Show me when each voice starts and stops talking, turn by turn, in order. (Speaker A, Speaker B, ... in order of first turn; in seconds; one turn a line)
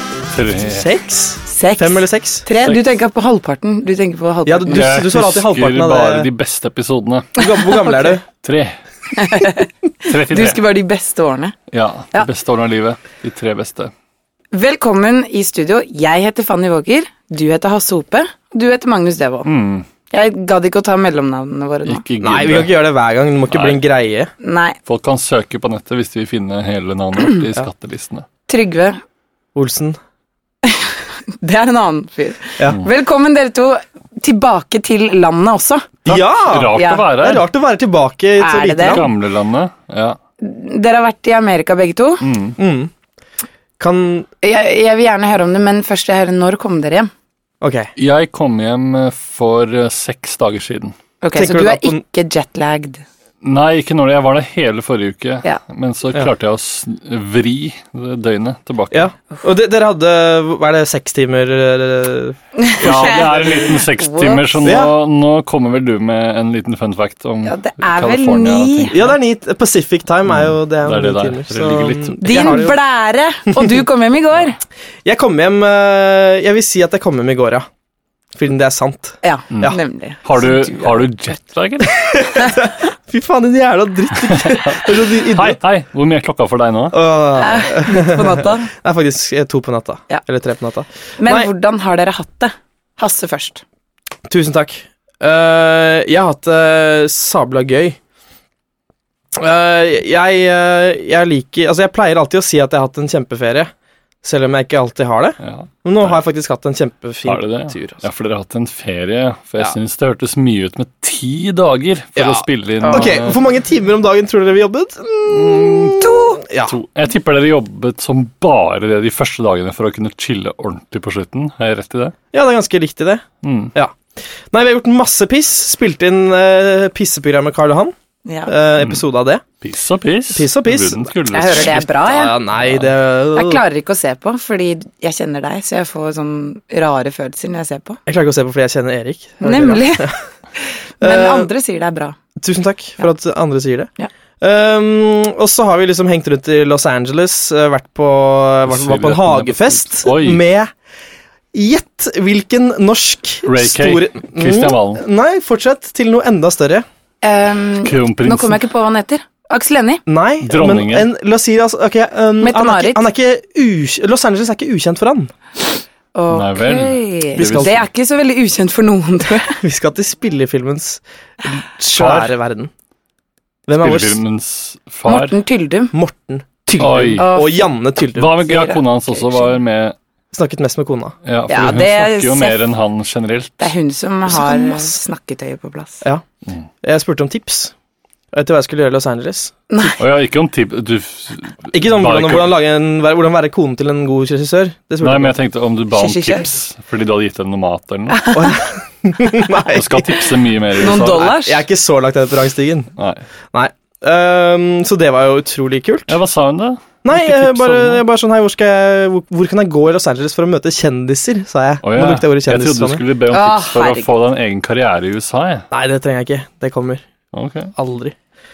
Speaker A: 0.3-0.9
Speaker B: 0.7-2.5
Speaker C: 1.4-4.9
Speaker B: 4.5-6.2
Speaker A: 4.7-7.4
Speaker C: 7.4-8.2
Speaker B: 7.4-8.2
Speaker A: 8.4-8.8
Speaker C: 9.2-11.5
Speaker A: 10.0-10.6
Speaker A: 11.7-13.9
Speaker C: 14.5-19.5
Speaker A: 19.4-19.9
Speaker C: 20.1-22.0
Speaker A: 21.9-22.7
Speaker B: 22.2-24.3
Speaker A: 23.5-23.8
Speaker C: 24.4-24.8
Speaker A: 24.9-28.2
Speaker C: 28.5-29.0
Speaker B: 29.5-30.0
Speaker C: 30.6-35.9
Speaker B: 36.0-39.0
Speaker A: 36.1-37.4
Speaker C: 36.7-37.0
Speaker C: 38.4-39.0
Speaker A: 38.8-40.2
Speaker C: 40.4-42.2
Speaker A: 42.2-42.6
Speaker B: 42.6-42.9
Speaker B: 43.8-44.3
Speaker C: 44.4-47.1
Speaker B: 47.6-47.9
Speaker A: 48.0-50.9
Speaker C: 51.2-53.0
Speaker B: 51.3-52.0
Speaker A: 53.4-59.1
Speaker B: 58.9-63.6
Speaker C: 62.5-64.8
Speaker A: 62.8-69.1
Speaker B: 64.6-64.9
Speaker C: 67.4-69.0
Speaker B: 68.9-72.8
Speaker A: 70.2-72.6
Speaker C: 72.2-74.6
Speaker B: 75.0-77.7
Speaker B: 78.3-79.8
Speaker C: 79.2-80.9
Speaker A: 79.5-82.2
Speaker B: 82.0-85.6
Speaker A: 84.3-87.0
Speaker B: 86.9-91.5
Speaker C: 87.4-88.7
Speaker C: 91.2-93.6
Speaker B: 94.3-98.0
Speaker B: 99.3-103.7
Speaker B: 104.2-108.0
Speaker A: 105.4-106.2
Speaker A: 107.2-113.4
Speaker B: 112.2-116.8
Speaker C: 112.8-113.2
Speaker A: 115.3-116.0
Speaker C: 116.0-116.4
Speaker A: 116.7-122.1
Speaker B: 122.3-123.2
Speaker A: 123.4-123.7
Speaker B: 123.7-127.9
Speaker C: 128.2-128.5
Speaker B: 128.5-129.4
Speaker A: 128.8-129.0
Speaker A: 129.6-131.9
Speaker B: 130.3-133.6
Speaker C: 131.3-132.4
Speaker A: 132.6-132.9
Speaker C: 133.3-138.0
Speaker B: 138.1-140.2
Speaker C: 139.4-142.2
Speaker B: 141.0-141.5
Speaker B: 142.4-150.7
Speaker A: 148.7-150.4
Speaker B: 151.5-156.8
Speaker A: 153.4-155.0
Speaker C: 157.2-160.0
Speaker A: 157.8-158.6
Speaker B: 160.1-165.3
Speaker A: 160.4-161.1
Speaker C: 162.4-163.0
Speaker C: 166.1-169.6
Speaker A: 166.3-167.8
Speaker B: 167.4-167.8
Speaker B: 169.6-172.7
Speaker A: 171.9-172.3
Speaker B: 173.7-174.2
Speaker A: 173.8-175.4
Speaker C: 175.1-175.9
Speaker B: 175.9-178.3
Speaker A: 176.8-177.3
Speaker C: 177.1-177.7
Speaker A: 178.1-179.9
Speaker C: 178.4-179.5
Speaker B: 180.3-181.2
Speaker A: 181.2-183.7
Speaker C: 181.5-182.6
Speaker C: 183.6-186.0
Speaker B: 184.3-184.9
Speaker B: 186.8-187.7
Speaker B: 188.3-190.0
Speaker C: 189.7-190.0
Speaker A: 190.0-192.5
Speaker B: 191.7-195.3
Speaker A: 195.0-198.2
Speaker C: 195.9-196.5
Speaker C: 198.1-198.6
Speaker B: 198.3-202.9
Speaker A: 199.7-201.3
Speaker C: 200.8-201.6
Speaker A: 203.0-203.2
Speaker B: 203.5-206.1
Speaker A: 206.1-208.0
Speaker B: 207.0-213.0
Speaker A: 211.8-215.7
Speaker C: 213.3-214.1
Speaker B: 215.7-217.0
Speaker A: 217.3-217.7
Speaker B: 217.8-218.1